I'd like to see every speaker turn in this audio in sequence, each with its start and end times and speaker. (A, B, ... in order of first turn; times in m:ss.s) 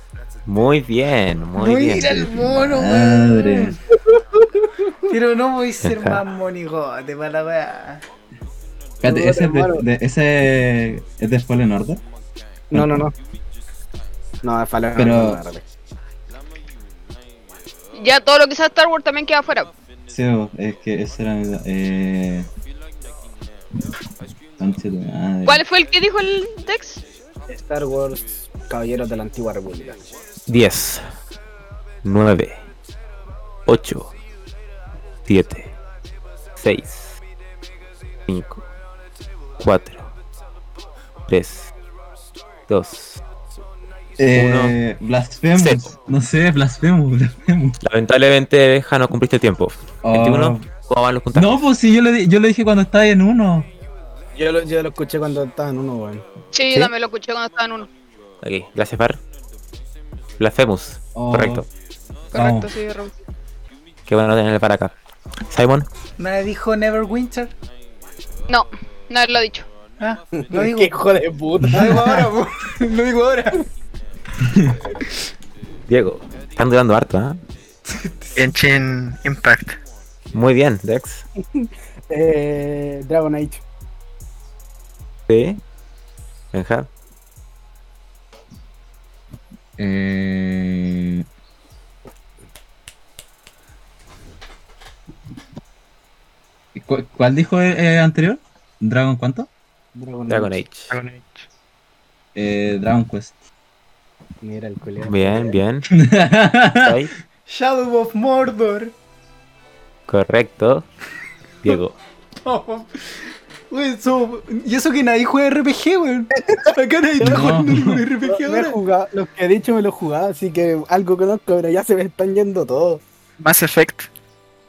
0:00.5-0:02.2 A
0:01.6-0:03.8 B
0:02.0-0:03.8 C
0:05.1-0:08.0 B
0:05.8-0:06.2 A
0:09.0-0:12.0 C
0:09.0-0:09.8 D
0:12.7-0:13.1 D
0:12.7-0:13.1 C
0:14.4-0:15.6 D
0:15.0-0:15.4 C
0:18.0-0:19.7 E
0:20.1-0:22.5 C
0:24.6-0:25.6 C
0:25.5-0:27.0 E
0:27.5-0:30.0 D
0:30.5-0:31.0 A
0:32.0-0:32.6 A
0:33.7-0:34.1 A
0:35.3-0:35.7 A
0:36.6-0:37.2 A
0:38.3-0:38.6 A
0:39.6-0:40.1 A
0:41.3-0:41.7 A
0:42.7-0:43.2 A
0:44.2-0:47.8 C
0:44.3-0:44.8 A
0:45.6-0:45.9 A
0:47.8-0:51.7 A
0:50.0-0:50.6 C
0:51.3-0:53.7 C
0:54.4-0:56.2 D
0:56.5-0:57.9 E
0:58.4-0:59.2 A
1:00.4-1:01.7 A
1:01.2-1:01.7 C
1:02.3-1:03.1 E
1:02.3-1:02.7 C
1:04.1-1:05.0 A
1:05.5-1:05.9 A
1:06.2-1:07.5 B
1:08.5-1:09.7 E
1:10.0-1:11.0 B
1:10.3-1:12.3 D
1:11.6-1:12.1 C
1:11.7-1:13.6 B
1:14.5-1:14.7 C
1:15.9-1:17.4 A
1:17.9-1:18.4 B
1:18.4-1:19.8 F
1:20.3-1:21.2 A
1:21.5-1:23.6 D
1:25.3-1:25.6 A
1:26.5-1:26.9 A
1:29.8-1:31.3 C
1:36.8-1:39.5 C
1:40.0-1:40.5 D
1:40.3-1:41.0 A
1:40.9-1:41.4 F
1:42.4-1:43.3 C
1:44.4-1:45.6 D
1:45.0-1:45.9 A
1:45.9-1:47.0 C
1:46.8-1:47.1 A
1:47.5-1:48.9 B
1:50.1-1:50.9 A
1:51.6-1:52.0 A
1:52.4-1:58.8 B
1:57.2-1:57.6 D
1:57.2-1:58.0 C
1:58.3-2:03.0 D
2:03.4-2:04.1 F